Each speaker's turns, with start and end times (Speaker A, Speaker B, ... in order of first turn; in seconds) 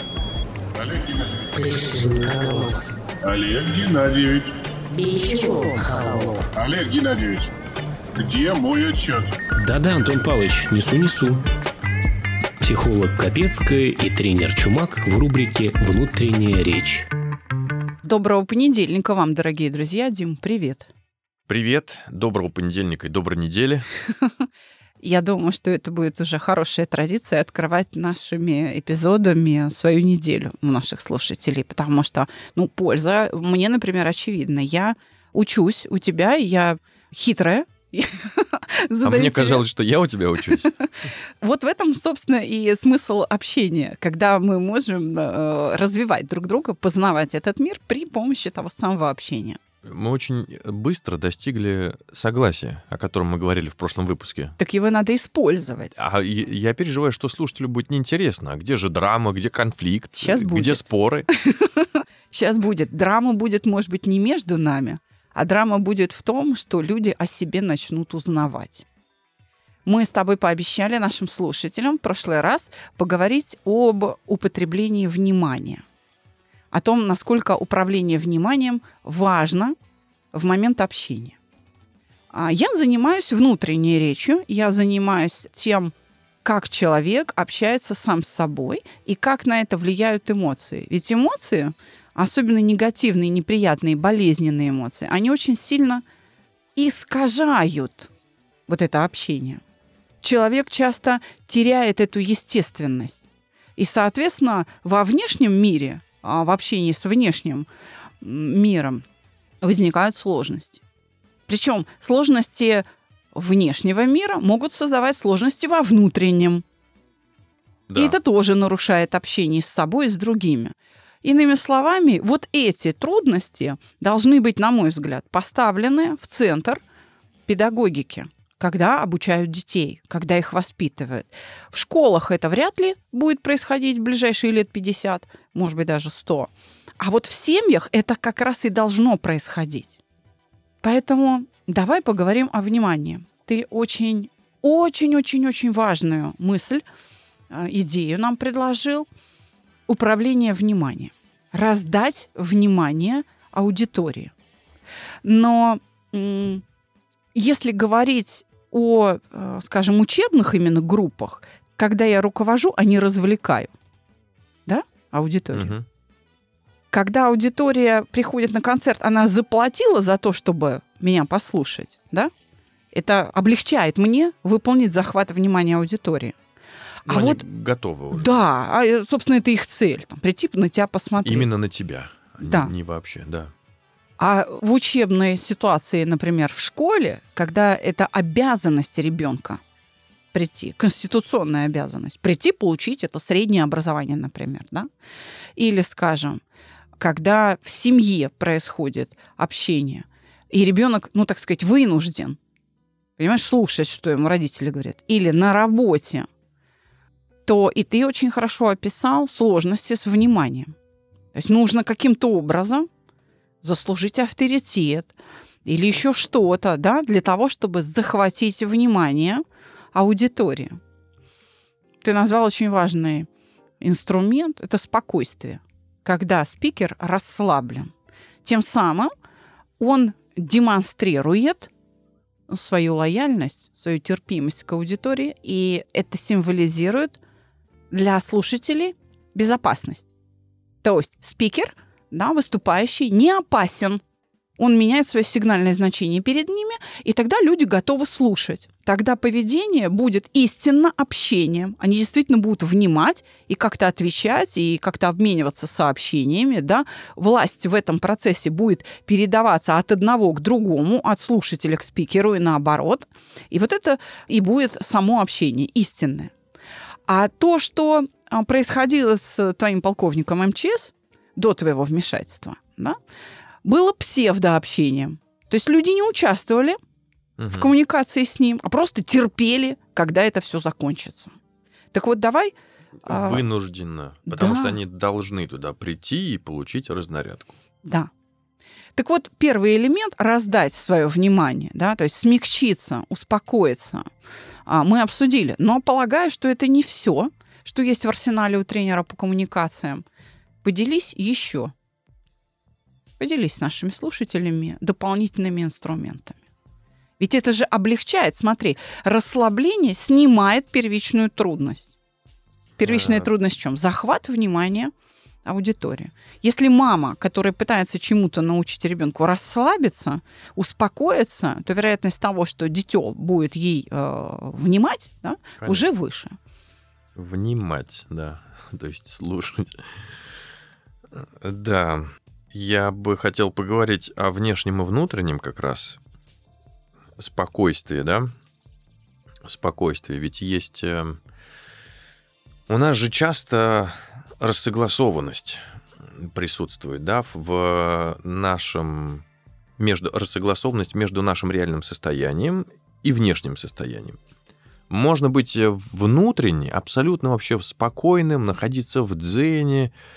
Speaker A: 0.8-1.5, 3.2-4.5, 6.6-7.5, 8.2-9.3
Speaker B: 1.5-3.0, 4.9-6.5, 9.6-11.4, 12.6-17.1
Speaker C: 18.0-20.9, 25.0-39.6, 40.6-40.9, 41.4-49.6, 54.6-56.0, 60.2-60.8, 61.4-68.9, 69.8-75.8, 76.7-79.8, 80.3-81.4, 82.3-96.0, 96.8-98.1, 98.7-99.6, 100.2-107.7, 108.2-109.0, 109.6-110.8, 111.5-116.7, 118.0-126.8, 127.5-140.0, 140.8-146.8, 147.5-149.1, 149.9-154.3, 155.2-156.6, 157.3-163.7, 164.7-165.7, 166.9-172.3, 172.9-176.3, 177.1-177.4, 178.1-181.5, 182.4-182.7, 184.2-189.6, 190.3-194.9, 195.6-196.4, 197.0-202.4, 203.2-206.3, 207.4-210.8, 211.3-212.9, 213.6-220.8, 222.0-223.3, 223.8-227.9, 228.4-229.1, 229.8-231.7, 232.5-237.2, 237.9-240.1, 240.8-244.0, 244.6-266.3, 267.1-273.0, 273.6-276.8, 277.5-281.4, 281.9-282.6, 283.1-283.4, 284.3-284.8, 287.9-288.1, 289.0-294.1, 294.7-300.1, 300.6-301.7, 303.2-306.4, 307.2-311.9, 312.8-314.9, 315.4-326.4
Speaker D: 21.5-23.9, 39.0-40.7, 49.9-54.6, 56.0-61.3, 117.9-118.2, 165.5-165.9, 177.1-178.3, 181.2-183.5, 277.4-277.7, 283.1-287.5, 312.8-313.3, 325.6-325.9, 327.2-329.9, 331.1-336.0, 337.2-338.3, 339.4-341.2, 342.7-345.6, 346.2-349.2, 349.8-354.2, 354.9-359.9